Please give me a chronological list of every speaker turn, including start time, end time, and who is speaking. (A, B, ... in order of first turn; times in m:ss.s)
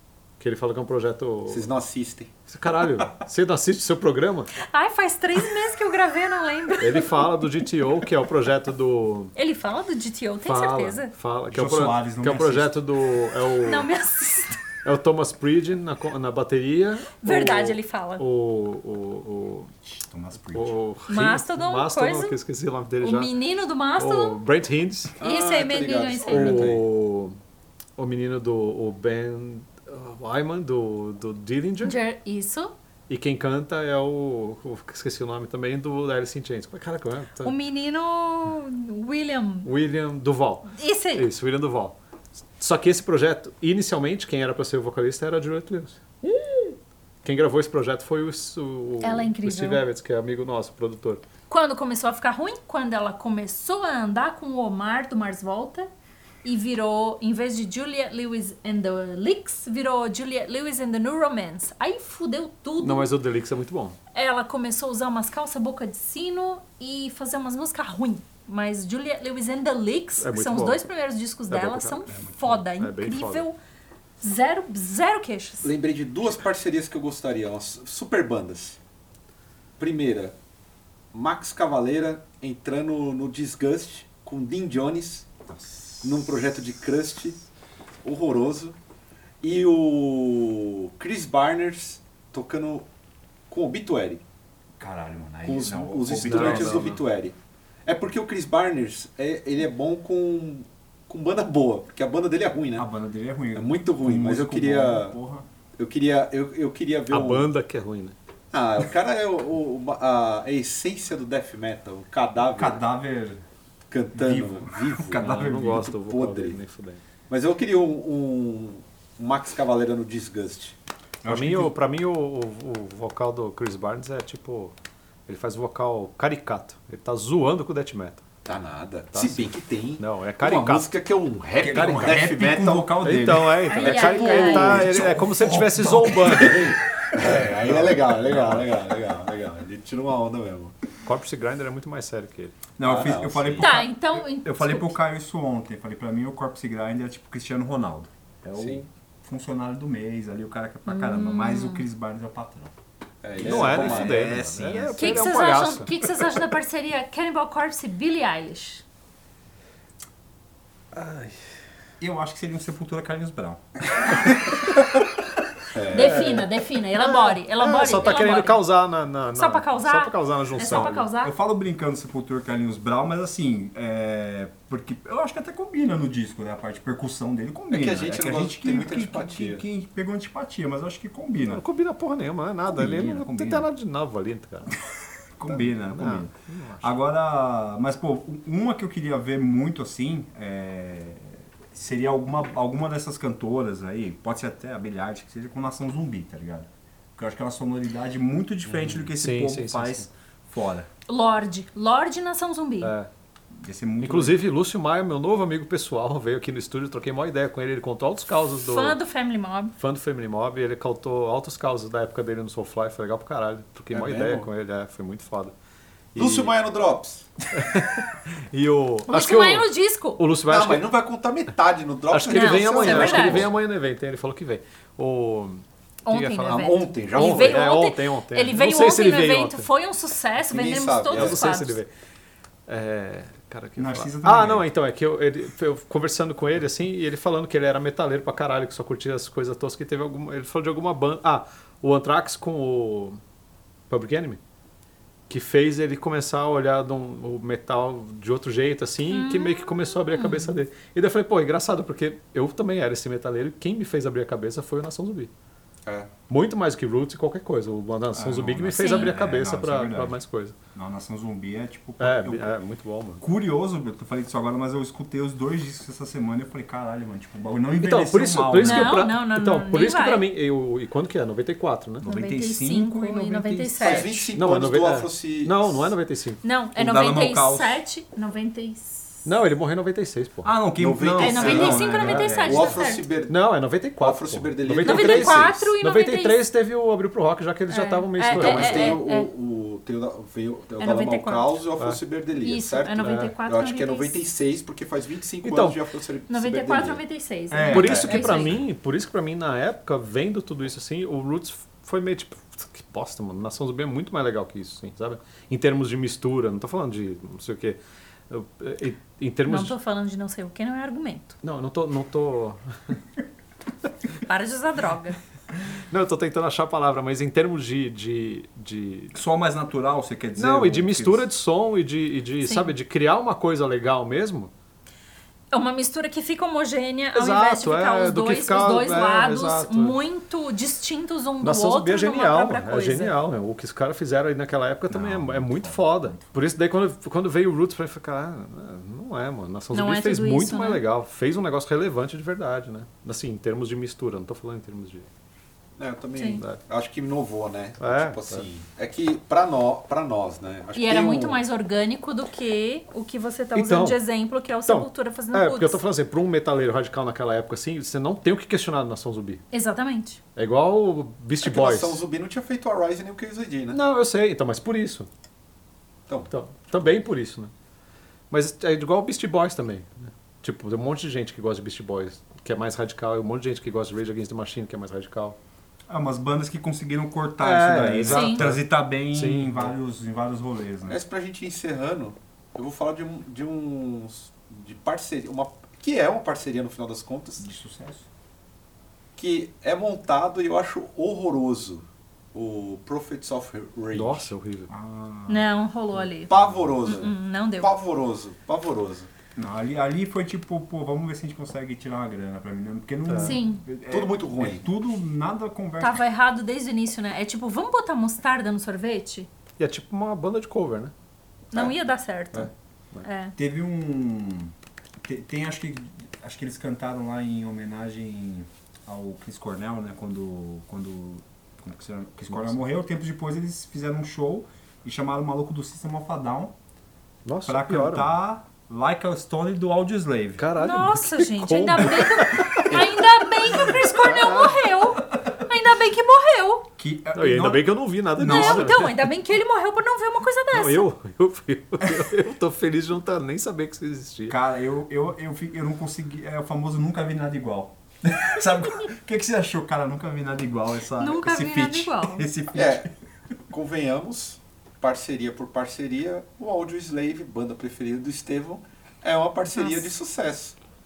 0:00.4-0:01.7 A
0:01.5-0:02.3 B
0:02.5-0:04.5 A
0:04.6-0:07.2 C
0:06.8-0:09.3 A
0:09.4-0:11.1 C
0:10.5-0:13.9 A
0:11.5-0:12.8 D
0:13.6-0:14.6 C
0:14.8-0:19.7 A
0:17.2-0:18.2 C
0:19.8-0:20.8 D
0:20.5-0:23.3 A
0:21.1-0:22.4 C
0:23.0-0:24.4 C
0:24.0-0:25.2 A
0:25.2-0:26.8 B
0:25.2-0:26.7 C
0:26.3-0:27.4 A
0:28.0-0:32.0 A
0:31.8-0:32.7 C
0:33.1-0:37.5 A
0:37.4-0:39.7 C
0:39.6-0:42.0 A
0:40.7-0:41.3 C
0:42.6-0:46.0 A
0:46.2-0:46.8 C
0:47.2-0:51.2 A
0:49.0-0:49.8 C
0:51.5-0:55.9 C
0:56.4-1:03.1 C
1:02.8-1:04.0 A
1:04.1-1:13.6 C
1:10.2-1:10.8 A
1:11.5-1:12.1 A
1:12.1-1:12.6 D
1:12.7-1:13.4 A
1:14.2-1:15.7 C
1:15.6-1:18.8 B
1:19.8-1:20.4 B
1:21.1-1:25.3 B
1:25.5-1:26.6 D
1:26.0-1:27.4 B
1:28.0-1:28.8 B
1:29.4-1:32.9 B
1:33.5-1:34.2 B
1:34.8-1:37.0 D
1:35.4-1:42.9 B
1:36.2-1:37.0 A
1:42.8-1:45.5 D
1:43.6-1:45.2 B
1:45.8-1:47.5 B
1:47.1-1:48.2 A
1:48.5-1:52.8 B
1:52.6-1:53.4 D
1:53.9-1:55.4 B
1:54.1-1:55.9 D
1:55.1-1:57.0 A
1:55.9-1:56.6 B
1:57.3-2:00.8 B
2:01.2-2:01.7 D
2:01.2-2:04.7 A
2:05.3-2:08.2 A
2:08.5-2:12.9 B
2:09.1-2:10.9 A
2:11.6-2:13.9 D
2:13.0-2:16.8 A
2:13.7-2:14.9 C
2:13.7-2:20.8 B
2:14.8-2:18.7 D
2:21.0-2:22.6 A
2:22.8-2:32.7 D
2:22.8-2:23.8 B
2:23.6-2:24.9 C
2:28.6-2:28.8 B
2:30.9-2:31.8 C
2:33.2-2:34.8 B
2:33.4-2:35.4 D
2:33.4-2:35.9 A
2:35.0-2:38.8 C
2:40.9-2:41.4 A
2:42.0-2:44.7 D
2:45.7-2:46.5 B
2:45.9-2:48.6 C
2:45.9-2:51.1 A
2:49.4-2:51.4 C
2:50.6-3:01.6 D
2:57.7-2:59.6 B
3:01.4-3:04.8 A
3:02.7-3:03.7 D
3:05.4-3:20.9 D
3:05.5-3:07.0 A
3:18.7-3:20.1 A
3:21.1-3:22.9 C
3:22.8-3:23.1 A
3:23.5-3:24.4 D
3:24.0-3:29.0 A
3:28.6-3:29.8 C
3:29.8-3:35.5 A
3:33.9-3:34.5 B
3:36.1-3:36.5 A
3:36.2-3:37.3 B
3:37.5-3:40.9 A
3:39.1-3:40.2 C
3:40.5-3:43.5 B
3:42.1-3:49.7 A
3:42.3-3:43.5 C
3:46.1-3:51.8 C
3:46.4-3:47.6 B
3:50.5-3:51.4 B
3:51.1-3:51.9 A
3:52.7-4:03.2 A
3:53.8-3:54.7 D
4:03.9-4:04.4 A
4:05.3-4:15.3 A
4:09.1-4:10.6 C
4:16.3-4:20.6 A
4:18.2-4:20.2 D
4:18.8-4:19.2 C
4:20.7-4:22.5 D
4:22.0-4:23.2 A
4:23.2-4:29.1 D
4:27.8-4:32.0 A
4:28.6-4:30.2 C
4:32.0-4:34.1 D
4:32.0-4:34.3 C
4:33.8-4:35.9 B
4:34.3-4:36.4 A
4:36.4-4:39.3 C
4:36.8-4:37.8 D
4:39.2-4:40.5 A
4:40.4-4:42.8 D
4:40.8-4:43.4 B
4:41.2-4:43.1 C
4:41.4-4:42.6 A
4:43.3-4:49.0 A
4:44.0-4:45.6 B
4:44.8-4:46.4 C
4:47.7-4:49.3 C
4:48.3-4:57.0 B
4:50.8-4:51.5 C
4:52.4-4:54.2 C
4:53.0-4:53.4 A
4:55.4-4:55.8 A
4:56.3-4:58.6 C
4:57.5-4:58.5 D
4:57.7-5:07.8 A
5:08.3-5:09.8 A
5:09.5-5:11.4 C
5:11.4-5:13.0 A
5:14.2-5:15.2 C
5:15.9-5:19.2 A
5:19.2-5:21.3 D
5:20.4-5:24.5 A
5:22.4-5:22.8 C
5:25.5-5:33.2 C
5:27.1-5:30.0 A
5:31.4-5:45.1 A
5:34.9-5:36.3 D
5:39.7-5:40.8 C
5:45.8-5:51.4 B
5:46.2-5:46.4 C
5:47.8-5:48.4 A
5:50.8-5:55.8 C
5:53.5-5:54.0 A
5:54.7-5:59.4 A
5:59.5-6:00.2 C
6:00.4-6:02.0 A
6:01.4-6:03.8 B
6:03.7-6:05.1 A
6:06.3-6:07.5 A
6:08.3-6:15.4 A
6:15.9-6:21.0 D
6:17.4-6:19.8 A
6:18.1-6:18.4 C
6:20.9-6:27.5 B
6:27.4-6:28.1 D
6:29.2-6:34.3 B
6:33.9-6:34.7 A
6:34.7-6:37.0 D
6:35.3-6:37.7 C
6:36.3-6:39.1 B
6:39.4-6:46.0 D
6:43.1-6:43.4 A
6:43.2-6:43.6 C
6:43.9-6:44.6 B
6:45.8-6:49.3 C
6:49.6-6:50.9 A
6:51.5-6:52.5 C
6:53.0-6:53.4 C
6:53.4-6:54.5 D
6:55.0-7:06.5 D
7:02.3-7:02.6 A
7:07.2-7:08.1 A
7:07.4-7:10.5 D
7:10.4-7:12.9 A
7:10.6-7:16.7 C
7:13.6-7:14.6 A
7:16.8-7:18.8 D
7:17.2-7:19.0 A
7:18.2-7:20.9 C
7:20.5-7:24.4 A
7:21.8-7:22.1 D
7:24.3-7:32.9 D
7:31.0-7:32.3 C
7:32.5-7:32.9 B
7:33.5-7:40.6 B
7:39.6-7:39.9 C